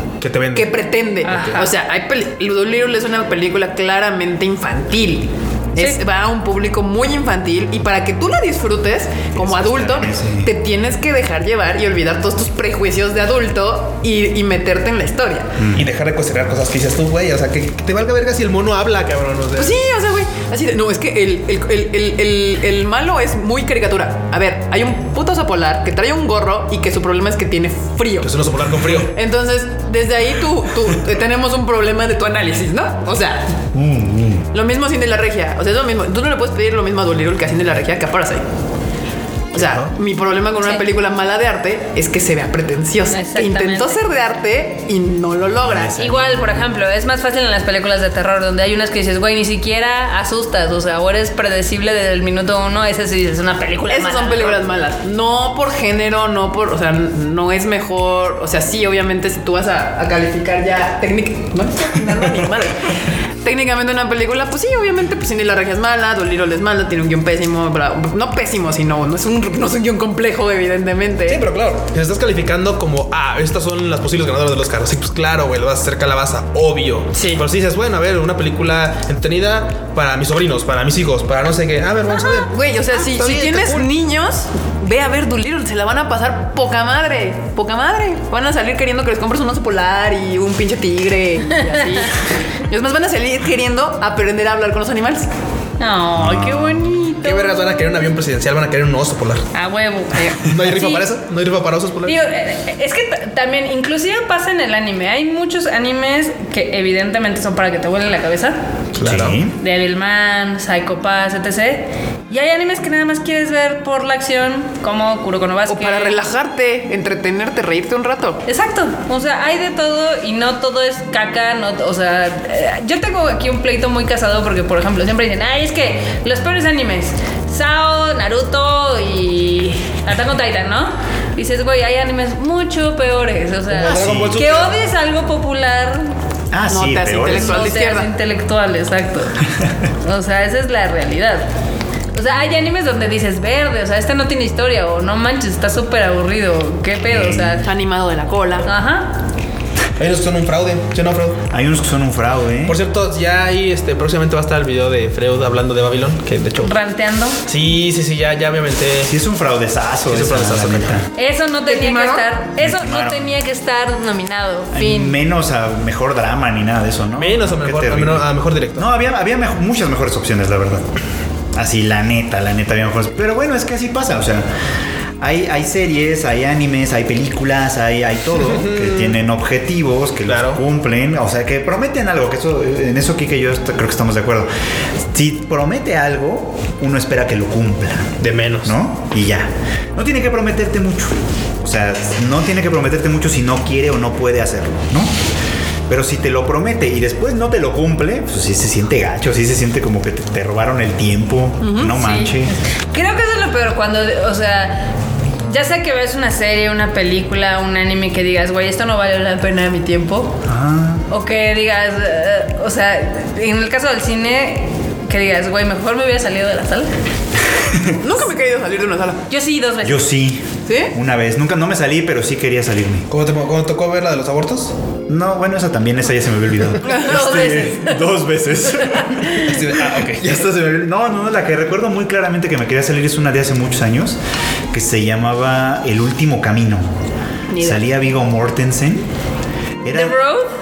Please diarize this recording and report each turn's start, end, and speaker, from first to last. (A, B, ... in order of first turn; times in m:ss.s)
0:00.2-0:00.8 A
0:00.5-0:15.6 B
0:01.2-0:01.7 C
0:09.4-0:10.5 D
0:15.6-0:15.9 D
0:15.7-0:19.8 A
0:19.6-0:28.3 B
0:28.2-0:29.1 A
0:29.0-0:33.5 B
0:33.7-0:34.5 D
0:34.5-0:38.4 B
0:39.5-0:39.9 D
0:39.5-0:46.0 B
0:43.1-0:44.0 C
0:45.6-0:46.6 D
0:46.0-0:54.6 C
0:53.9-1:11.4 B
1:11.3-1:23.9 A
1:17.1-1:17.4 B
1:22.4-1:35.3 B
1:35.8-1:37.9 C
1:36.2-1:36.9 D
1:37.2-1:39.5 A
1:39.5-1:41.1 C
1:40.4-1:42.2 A
1:42.0-1:48.6 C
1:49.0-1:49.4 A
1:49.0-1:49.6 D
1:49.6-1:56.2 C
1:55.7-1:58.4 B
1:58.5-2:16.1 C
2:13.7-2:14.8 A
2:13.9-2:14.4 D
2:16.5-2:17.6 D
2:16.7-2:18.1 B
2:17.3-2:19.4 C
2:20.0-2:21.5 C
2:22.1-2:27.6 C
2:27.1-2:27.6 D
2:27.6-2:28.7 B
2:28.6-2:29.2 C
2:30.0-2:31.4 A
2:31.5-2:32.8 D
2:32.7-2:36.8 A
2:36.6-2:37.4 C
2:37.5-2:39.1 A
2:39.0-2:41.1 D
2:40.1-2:41.0 A
2:41.2-2:45.2 C
2:41.7-2:42.3 B
2:42.6-2:43.3 D
2:44.7-2:50.9 D
2:47.2-2:48.9 A
2:51.5-2:54.5 D
2:55.2-3:04.5 D
2:58.4-2:59.2 A
3:00.3-3:00.6 A
3:05.0-3:15.1 D
3:08.2-3:08.8 A
3:15.9-3:22.6 D
3:21.6-3:22.0 B
3:21.9-3:24.9 C
3:25.5-3:30.4 C
3:30.4-3:31.0 D
3:31.1-3:36.9 C
3:37.5-3:38.0 D
3:38.0-3:39.2 B
3:39.3-3:40.0 C
3:39.8-3:43.1 D
3:40.7-3:40.9 B
3:43.1-3:44.7 A
3:45.1-3:54.2 D
3:46.9-3:47.2 B
3:47.0-3:48.0 C
3:48.8-3:49.4 C
3:49.4-3:50.7 A
3:54.7-3:56.9 D
3:57.5-3:57.8 B
3:57.6-3:59.1 D
3:59.8-4:00.2 D
3:59.9-4:00.5 C